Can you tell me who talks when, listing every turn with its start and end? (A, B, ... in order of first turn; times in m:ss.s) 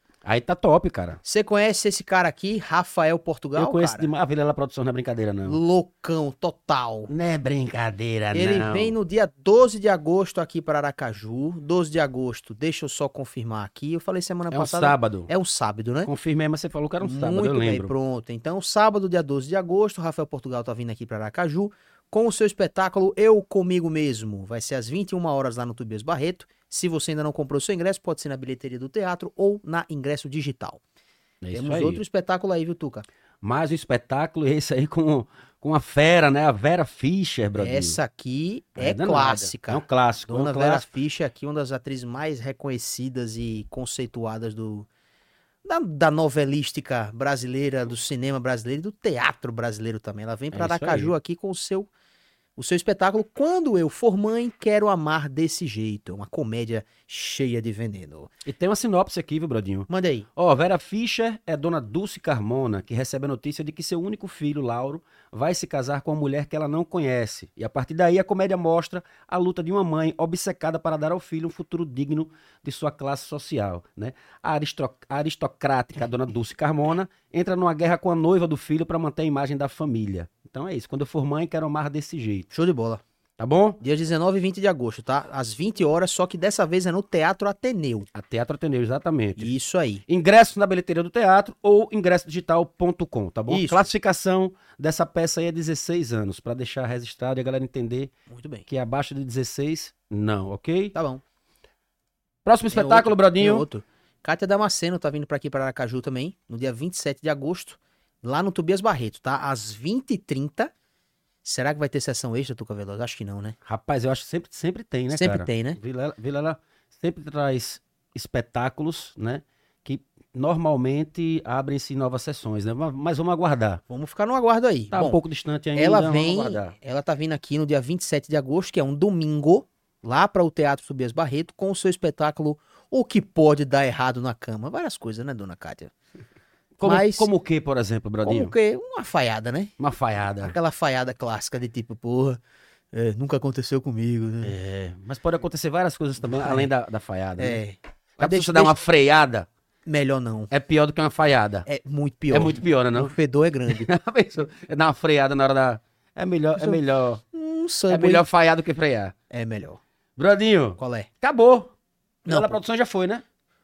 0:00.2-0:01.2 A
0:01.2-0:04.1 B
0:03.6-0:05.6 A
0:05.4-0:07.1 B
0:07.1-0:08.9 A
0:08.3-0:16.1 B
0:14.5-0:15.3 A
0:16.0-0:17.9 A
0:17.0-0:30.8 B
0:31.4-0:32.0 A
0:31.5-0:33.0 B
0:33.4-0:38.0 A
0:37.6-0:44.9 B
0:38.8-0:40.8 A
0:45.6-0:51.9 B
0:50.5-0:51.1 A
0:52.6-0:58.3 B
0:58.4-1:22.5 A
0:59.9-1:00.3 B
1:22.5-1:23.0 B
1:23.4-1:23.8 A
1:23.8-1:28.1 B
1:28.1-1:29.5 A
1:29.4-1:30.0 B
1:30.1-1:38.1 A
1:33.5-1:33.9 B
1:38.3-1:38.6 B
1:38.7-1:40.9 A
1:40.9-1:41.2 B
1:42.4-1:43.6 A
1:42.7-1:50.7 B
1:51.4-1:53.6 B
1:53.6-2:03.8 A
1:55.1-1:55.8 B
2:03.9-2:05.2 B
2:04.9-2:06.7 A
2:05.7-2:15.9 B
2:16.8-2:18.5 A
2:16.8-2:17.3 B
2:18.2-2:19.7 B
2:19.8-2:20.5 A
2:20.4-2:22.4 B
2:22.9-2:24.6 B
2:24.4-2:27.6 A
2:26.2-2:26.7 B
2:27.4-2:28.8 B
2:28.2-2:29.5 A
2:29.8-2:30.5 B
2:30.5-2:31.7 A
2:31.6-2:33.9 B
2:32.3-2:33.1 A
2:33.7-2:37.2 A
2:37.3-2:38.2 B
2:37.9-2:39.1 A
2:39.3-2:39.8 B
2:40.2-2:41.7 A
2:40.8-2:41.1 B
2:42.2-2:43.2 A
2:42.3-2:42.6 B